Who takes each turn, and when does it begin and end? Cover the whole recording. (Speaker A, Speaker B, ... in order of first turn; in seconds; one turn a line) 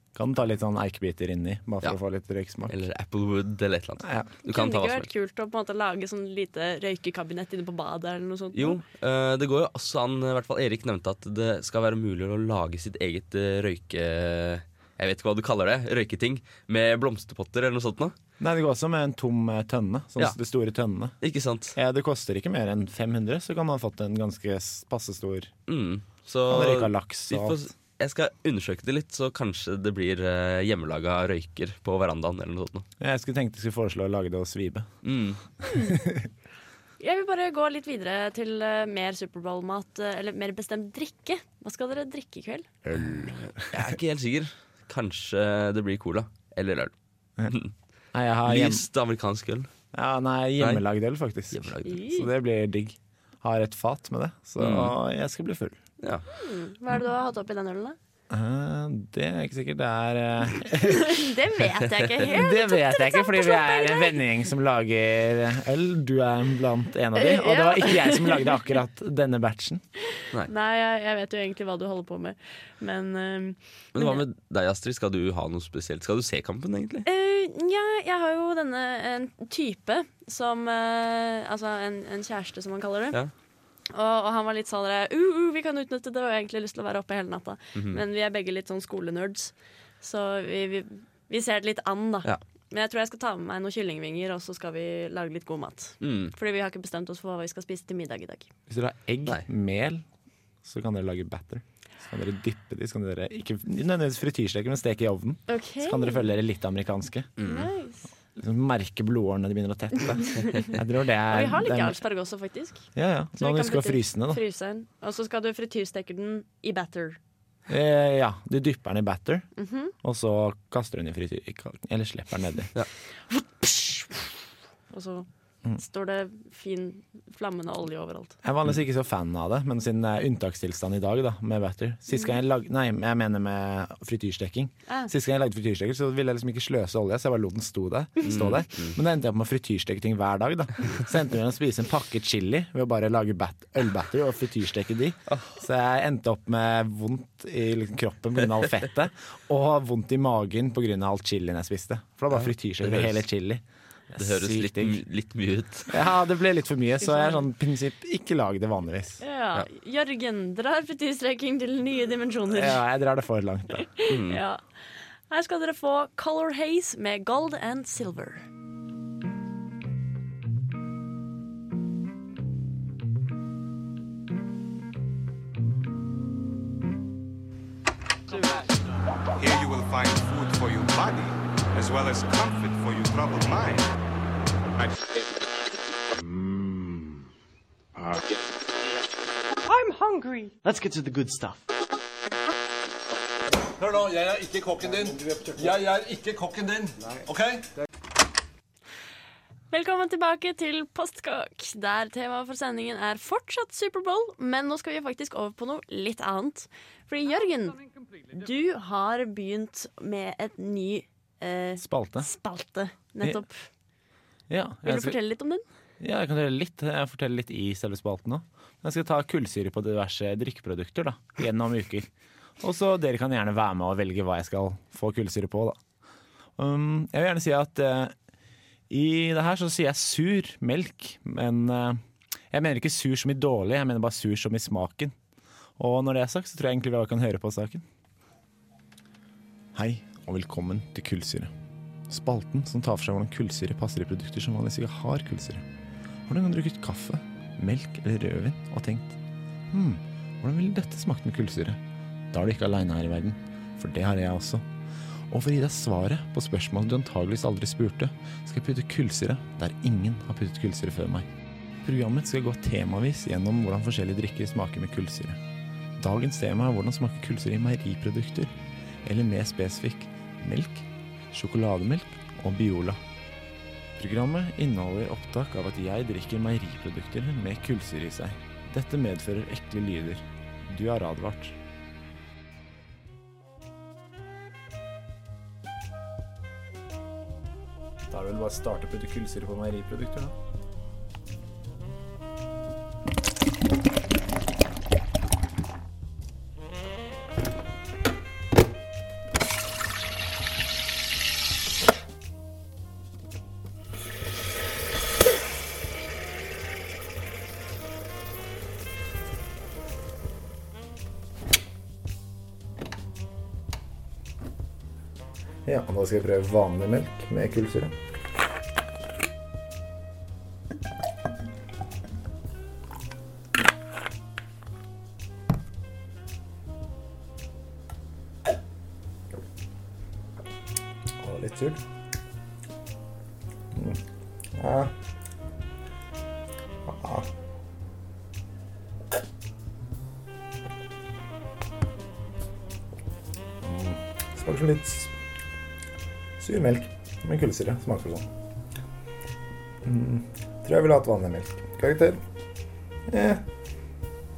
Speaker A: 0.1-2.7
Speaker B: 2.7-5.1
Speaker A: 4.0-4.3
Speaker C: 4.5-8.8
Speaker B: 8.5-18.1
Speaker A: 18.4-21.2
Speaker B: 21.2-21.8
Speaker A: 21.8-25.5
Speaker B: 25.7-32.9
Speaker A: 26.5-27.6
Speaker A: 33.0-34.9
Speaker B: 35.0-35.4
Speaker C: 35.7-36.0
Speaker A: 35.8-36.3
Speaker C: 37.0-42.7
Speaker A: 42.9-43.5
Speaker B: 43.0-46.9
Speaker B: 47.5-47.7
Speaker A: 48.1-48.8
Speaker B: 48.5-49.7
Speaker A: 49.9-55.8
Speaker B: 51.5-52.0
Speaker C: 51.9-52.3
Speaker B: 54.6-55.0
Speaker C: 56.3-58.0
Speaker A: 58.3-61.3
Speaker C: 60.9-64.2
Speaker A: 62.2-69.8
Speaker C: 67.2-68.8
Speaker C: 70.5-74.2
Speaker B: 74.0-77.1
Speaker C: 77.1-83.2
Speaker C: 83.9-98.5
Speaker B: 87.8-88.0
Speaker B: 96.0-96.3
Speaker A: 98.7-100.0
Speaker A: 100.6-107.4
Speaker C: 105.5-106.3
Speaker B: 107.4-107.7
Speaker C: 107.4-108.1
Speaker A: 108.3-112.0
Speaker C: 110.3-110.7
Speaker C: 111.3-112.9
Speaker A: 113.0-114.4
Speaker C: 113.4-117.2
Speaker A: 117.7-119.5
Speaker C: 119.6-119.9
Speaker A: 120.0-122.7
Speaker C: 123.3-124.4
Speaker C: 124.9-128.4
Speaker A: 128.4-155.0
Speaker C: 134.9-135.1
Speaker B: 138.2-139.0
Speaker B: 145.3-145.6
Speaker B: 152.3-153.2
Speaker B: 154.2-156.0
Speaker A: 155.9-159.2
Speaker C: 157.0-157.5
Speaker C: 159.2-162.8
Speaker A: 162.5-163.9
Speaker C: 163.9-164.6
Speaker B: 164.1-164.4
Speaker C: 165.3-168.5
Speaker D: 179.4-183.9
Speaker E: 189.7-191.6
Speaker F: 193.8-197.7
Speaker C: 199.7-213.7
Speaker A: 211.8-212.3
Speaker A: 214.5-215.2
Speaker C: 214.8-215.7
Speaker A: 216.0-222.1
Speaker A: 222.6-225.8
Speaker A: 226.6-228.2
Speaker A: 228.9-235.2
Speaker A: 235.8-237.8
Speaker A: 239.7-241.5
Speaker A: 242.1-245.7
Speaker A: 246.3-249.2
Speaker A: 249.7-251.8
Speaker A: 252.3-254.7
Speaker A: 255.3-261.3
Speaker A: 261.8-265.4
Speaker A: 266.0-273.0
Speaker A: 274.0-281.6
Speaker A: 288.1-290.4
Speaker A: 315.6-318.0
Speaker A: 331.2-331.8
Speaker A: 333.7-334.0
Speaker A: 334.5-334.9
Speaker A: 336.8-337.3
Speaker A: 343.6-345.1
Speaker A: 346.4-348.3
Speaker A: 349.8-352.2
Speaker A: 353.1-353.5